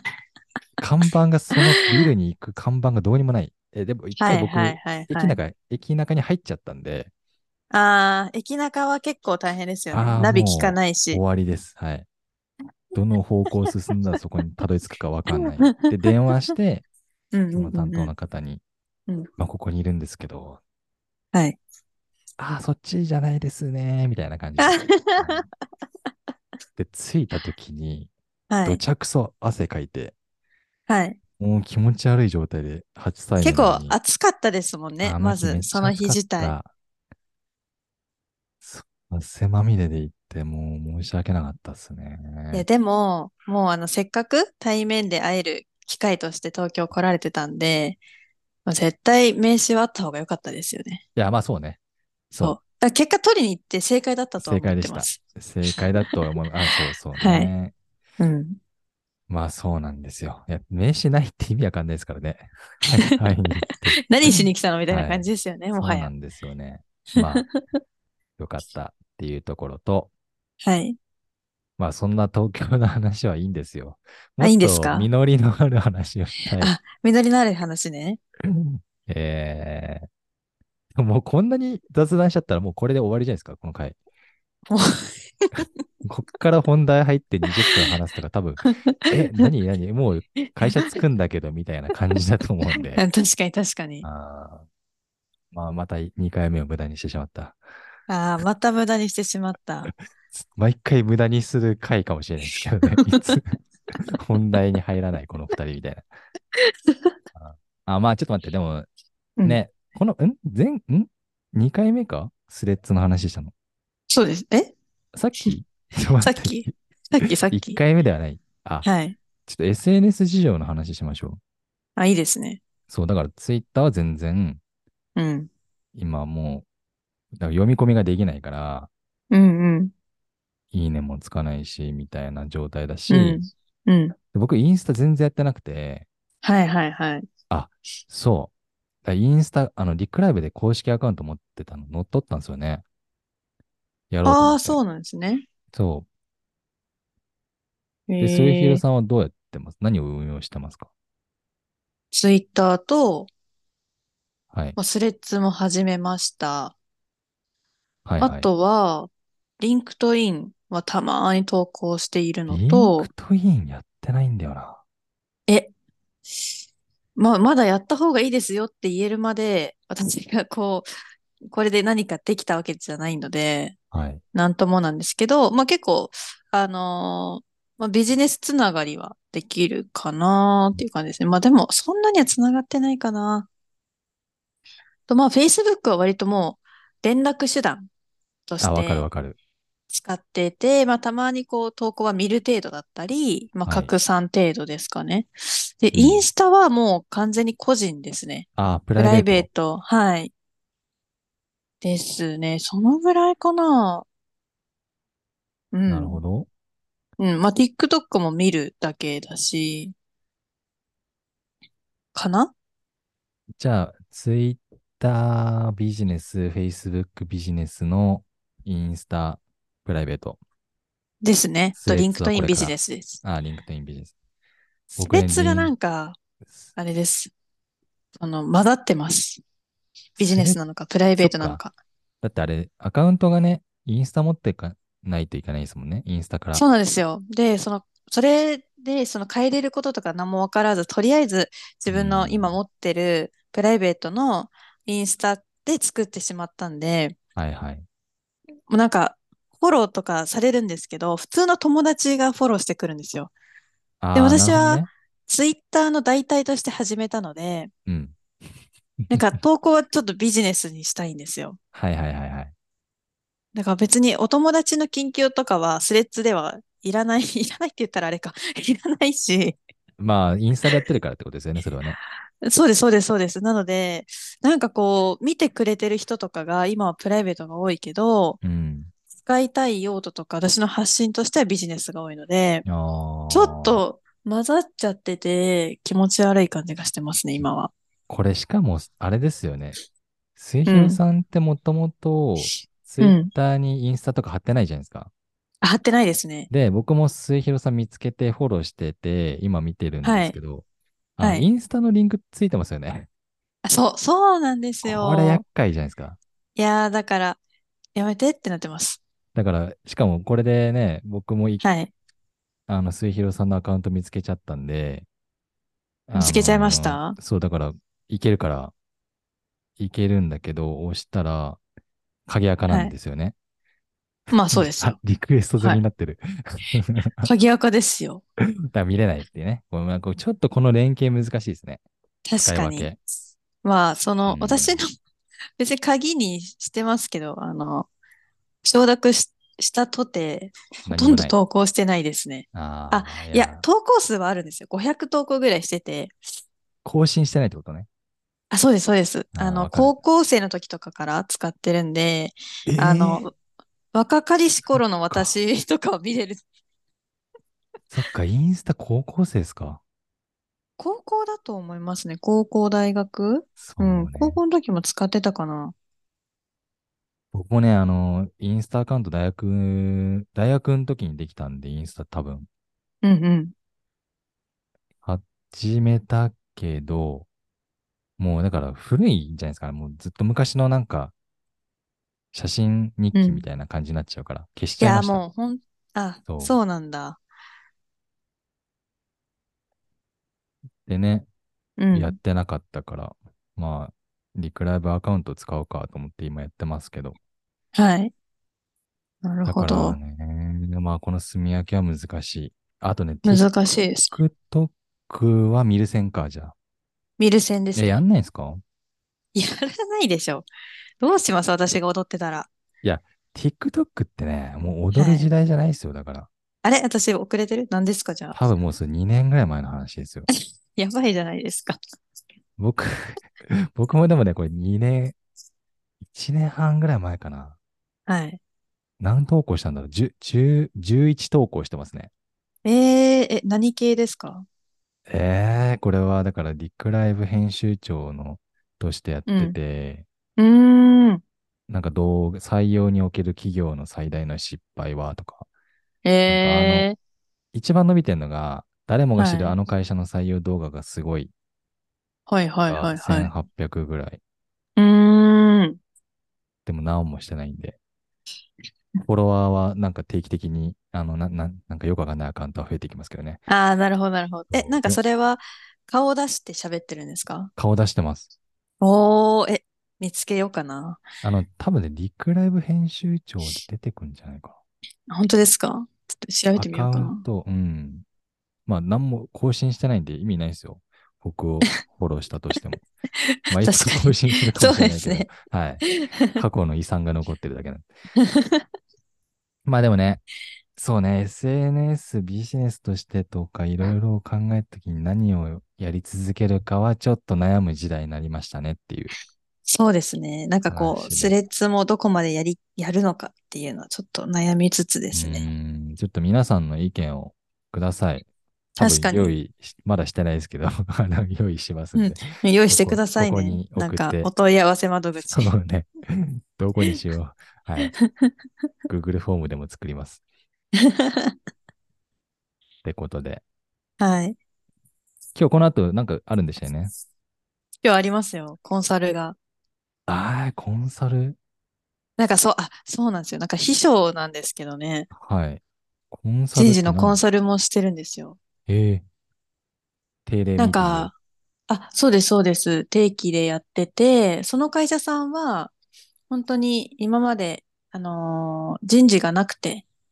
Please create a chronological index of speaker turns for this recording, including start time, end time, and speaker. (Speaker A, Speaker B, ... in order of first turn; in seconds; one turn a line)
Speaker A: 0.8-7.1
Speaker B: 4.2-5.4
Speaker B: 7.7-11.2
Speaker A: 9.9-12.1
Speaker A: 12.9-16.9
Speaker B: 15.3-15.9
Speaker B: 17.3-18.1
Speaker A: 17.5-18.6
Speaker A: 19.4-20.6
Speaker A: 22.4-25.5
Speaker B: 24.6-25.5
Speaker A: 26.8-28.1
Speaker B: 28.5-28.8
Speaker A: 28.6-30.1
Speaker B: 30.9-31.2
Speaker A: 31.4-34.0
Speaker B: 33.4-36.5
Speaker A: 35.0-36.7
Speaker A: 38.6-42.6
Speaker B: 42.5-48.0
Speaker B: 48.7-51.0
Speaker A: 51.2-51.8
Speaker A: 52.3-52.6
Speaker B: 52.4-55.8
Speaker A: 54.4-57.7
Speaker B: 57.2-57.5
Speaker B: 58.2-58.6
Speaker A: 59.3-67.5
Speaker B: 64.1-66.1
Speaker B: 67.2-67.8
Speaker A: 68.4-70.1
Speaker B: 70.6-71.0
Speaker A: 71.8-76.7
Speaker B: 74.4-75.1
Speaker B: 76.6-78.2
Speaker A: 78.4-80.1
Speaker A: 81.0-84.0
Speaker B: 84.7-85.7
Speaker A: 86.0-93.0
Speaker B: 88.6-89.5
Speaker B: 90.5-90.9
Speaker B: 92.9-94.1
Speaker A: 94.0-94.7
Speaker A: 95.5-97.6
Speaker B: 98.1-99.9
Speaker A: 100.3-106.1
Speaker B: 103.0-103.3
Speaker B: 106.5-107.2
Speaker A: 107.3-108.9
Speaker A: 109.4-113.5
Speaker B: 114.1-114.7
Speaker A: 115.2-118.9
Speaker B: 116.2-117.8
Speaker B: 118.8-119.2
Speaker A: 119.5-121.4
Speaker B: 122.0-122.6
Speaker A: 122.9-124.6
Speaker B: 125.2-125.5
Speaker A: 126.0-126.7
Speaker A: 127.3-128.9
Speaker B: 129.3-129.9
Speaker A: 130.7-133.4
Speaker B: 133.1-134.2
Speaker A: 134.3-136.1
Speaker B: 136.4-137.3
Speaker A: 137.5-138.5
Speaker A: 139.1-142.8
Speaker A: 144.1-144.8
Speaker B: 144.2-145.5
Speaker A: 145.7-146.1
Speaker B: 148.1-148.8
Speaker A: 148.2-150.9
Speaker B: 152.1-153.3
Speaker B: 154.8-156.8
Speaker A: 158.1-158.5
Speaker B: 158.2-163.1
Speaker A: 162.5-164.8
Speaker B: 167.2-170.9
Speaker B: 171.5-173.8
Speaker A: 173.9-174.2
Speaker B: 174.3-183.5
Speaker B: 185.1-187.9
Speaker B: 188.5-189.1
Speaker A: 188.6-189.4
Speaker B: 189.9-200.3
Speaker A: 193.7-193.9
Speaker A: 195.9-196.2
Speaker A: 198.6-199.5
Speaker B: 201.8-204.1
Speaker B: 205.7-206.2
Speaker A: 205.9-206.5
Speaker B: 207.2-209.9
Speaker B: 212.2-212.5
Speaker A: 213.6-220.4
Speaker B: 221.2-223.2
Speaker A: 221.8-224.1
Speaker B: 224.9-226.2
Speaker A: 225.0-225.7
Speaker B: 226.8-227.3
Speaker B: 228.2-229.4
Speaker B: 230.2-231.8
Speaker A: 230.2-230.6
Speaker A: 231.2-231.6
Speaker A: 232.2-236.6
Speaker B: 236.5-247.2
Speaker A: 241.9-242.6
Speaker A: 247.4-247.9
Speaker B: 248.7-253.3
Speaker A: 254.0-254.9
Speaker B: 254.2-257.7
Speaker A: 257.9-258.2
Speaker B: 259.1-261.6
Speaker A: 261.7-262.5
Speaker B: 263.6-269.6
Speaker A: 270.0-272.0
Speaker B: 272.4-278.4
Speaker A: 278.4-278.9
Speaker B: 279.2-282.7
Speaker A: 282.7-283.8
Speaker B: 283.3-287.7
Speaker A: 288.1-289.8
Speaker A: 290.4-295.1
Speaker B: 290.7-291.0
Speaker B: 292.4-293.3
Speaker B: 295.6-296.5
Speaker A: 296.5-300.6
Speaker B: 300.0-300.4
Speaker A: 301.2-303.1
Speaker B: 301.2-301.5
Speaker B: 303.6-305.4
Speaker A: 304.8-306.2
Speaker B: 306.6-307.4
Speaker B: 307.9-309.0
Speaker A: 309.4-311.6
Speaker B: 311.6-311.9
Speaker A: 312.7-315.1
Speaker A: 316.1-318.7
Speaker B: 316.2-317.2
Speaker A: 319.8-321.6
Speaker A: 322.3-323.4
Speaker B: 324.3-325.0
Speaker A: 324.5-327.3
Speaker B: 327.2-328.2
Speaker A: 328.7-331.8
Speaker B: 332.3-332.9
Speaker A: 332.4-333.0
Speaker B: 333.6-334.9
Speaker A: 334.2-334.8
Speaker B: 335.6-337.9
Speaker B: 338.6-346.2
Speaker A: 340.9-341.4
Speaker A: 342.5-343.7
Speaker A: 346.9-347.9
Speaker B: 348.5-353.4
Speaker A: 349.4-349.9
Speaker A: 352.7-353.3
Speaker B: 353.9-356.4
Speaker A: 354.7-355.3
Speaker A: 357.9-359.8
Speaker B: 360.8-365.7
Speaker A: 363.6-364.4
Speaker A: 367.3-372.5
Speaker B: 373.0-373.5
Speaker A: 375.0-377.3
Speaker A: 378.2-381.1
Speaker A: 382.3-385.2
Speaker B: 383.1-383.4
Speaker B: 384.8-387.2
Speaker A: 386.3-386.6
Speaker A: 390.9-391.3
Speaker B: 391.8-392.2
Speaker A: 391.9-397.2
Speaker B: 397.7-398.1
Speaker B: 399.2-400.0
Speaker A: 399.5-403.5
Speaker B: 403.2-404.2
Speaker A: 404.1-406.5
Speaker B: 407.2-407.9
Speaker A: 407.8-408.6
Speaker B: 409.4-410.5
Speaker B: 411.0-412.5
Speaker A: 412.8-416.3
Speaker B: 414.9-415.3
Speaker B: 416.6-418.4
Speaker A: 418.3-420.3
Speaker B: 420.3-421.8
Speaker A: 422.6-425.2
Speaker A: 426.0-427.6
Speaker B: 428.1-428.4
Speaker A: 429.0-432.1
Speaker B: 432.6-434.5
Speaker A: 435.1-440.1
Speaker B: 439.3-439.6
Speaker B: 440.4-441.2
Speaker A: 441.7-445.5
Speaker B: 446.1-447.0
Speaker A: 446.3-446.9
Speaker A: 447.5-451.3
Speaker B: 449.2-449.6
Speaker B: 452.3-453.3
Speaker A: 452.7-454.2
Speaker B: 454.8-455.8
Speaker A: 456.7-457.8
Speaker A: 459.1-463.4
Speaker B: 463.5-467.5
Speaker A: 464.5-465.0
Speaker A: 467.6-468.3
Speaker B: 468.8-471.0
Speaker A: 471.2-474.6
Speaker B: 475.1-477.2
Speaker A: 476.6-478.1
Speaker A: 478.7-482.8
Speaker B: 483.2-485.3
Speaker A: 483.5-487.9
Speaker B: 485.8-486.4
Speaker B: 488.2-488.7
Speaker A: 489.7-490.2
Speaker A: 490.8-499.1
Speaker B: 499.7-505.4
Speaker A: 500.7-501.4
Speaker A: 505.1-508.3
Speaker B: 508.8-509.3
Speaker A: 508.8-514.3
Speaker B: 511.9-515.5
Speaker A: 515.3-517.9
Speaker B: 517.8-518.3
Speaker A: 518.9-520.2
Speaker B: 520.8-521.4
Speaker A: 522.8-523.4
Speaker B: 524.0-524.4
Speaker A: 525.4-526.9
Speaker B: 527.8-529.4
Speaker A: 530.1-531.4
Speaker B: 532.2-535.1
Speaker A: 535.2-537.2
Speaker B: 536.5-538.4
Speaker A: 538.7-539.0
Speaker A: 540.3-541.1
Speaker B: 540.6-541.1
Speaker B: 541.7-545.7
Speaker B: 546.3-549.9